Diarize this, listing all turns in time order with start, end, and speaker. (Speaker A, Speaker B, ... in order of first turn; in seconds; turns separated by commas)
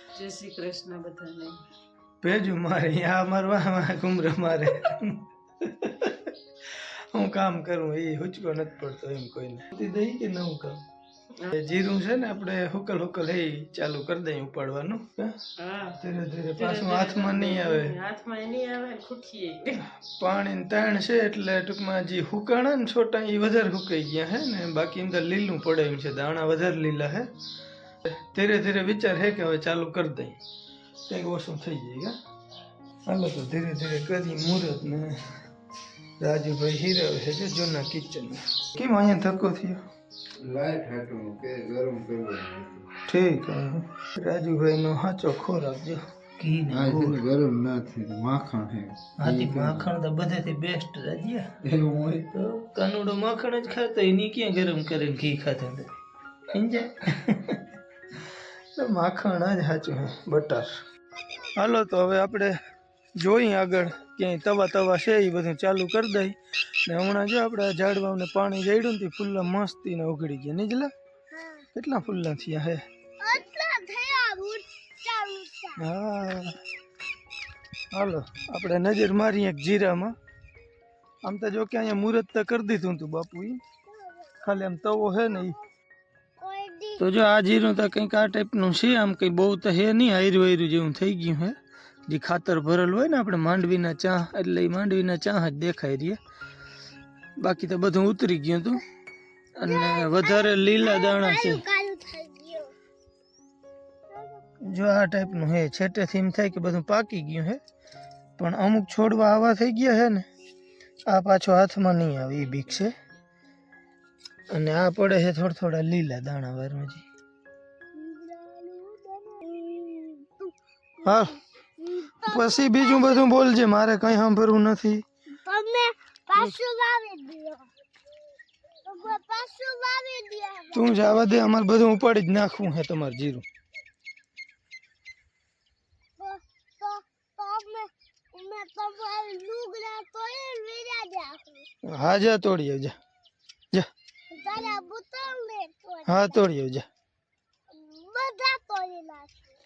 Speaker A: 0.2-1.6, Speaker B: 2.2-10.8, Speaker B: 11.5-15.4, Speaker A: 15.6-16.0, Speaker B: 16.0-18.0, Speaker A: 16.6-19.8, Speaker B: 20.0-27.3, Speaker B: 28.0-30.4, Speaker B: 31.1-32.2, Speaker B: 33.1-35.3, Speaker B: 36.2-39.8, Speaker C: 40.4-42.9, Speaker B: 43.1-47.2, Speaker C: 46.7-49.9, Speaker B: 49.2-51.5, Speaker C: 51.6-52.2, Speaker B: 52.2-55.9, Speaker B: 56.5-60.7, Speaker B: 61.6-62.6, Speaker B: 63.2-70.9, Speaker D: 71.3-71.7, Speaker B: 71.8-72.8, Speaker D: 73.2-75.8, Speaker B: 75.8-76.6, Speaker B: 77.9-80.2, Speaker B: 81.2-83.6, Speaker B: 84.4-85.6, Speaker D: 86.4-87.0, Speaker B: 87.0-91.6, Speaker B: 92.1-96.2, Speaker B: 97.4-98.8, Speaker B: 99.6-101.6, Speaker D: 99.7-102.7, Speaker B: 104.6-107.6, Speaker B: 108.4-110.3, Speaker B: 111.1-112.9, Speaker B: 114.5-117.0, Speaker D: 117.9-123.3, Speaker B: 121.0-121.4, Speaker B: 122.3-125.0, Speaker D: 125.5-127.7, Speaker D: 128.8-131.0, Speaker B: 130.7-133.4, Speaker D: 136.2-141.7, Speaker B: 141.8-143.0, Speaker D: 144.3-146.4, Speaker B: 146.1-146.9, Speaker D: 147.7-149.5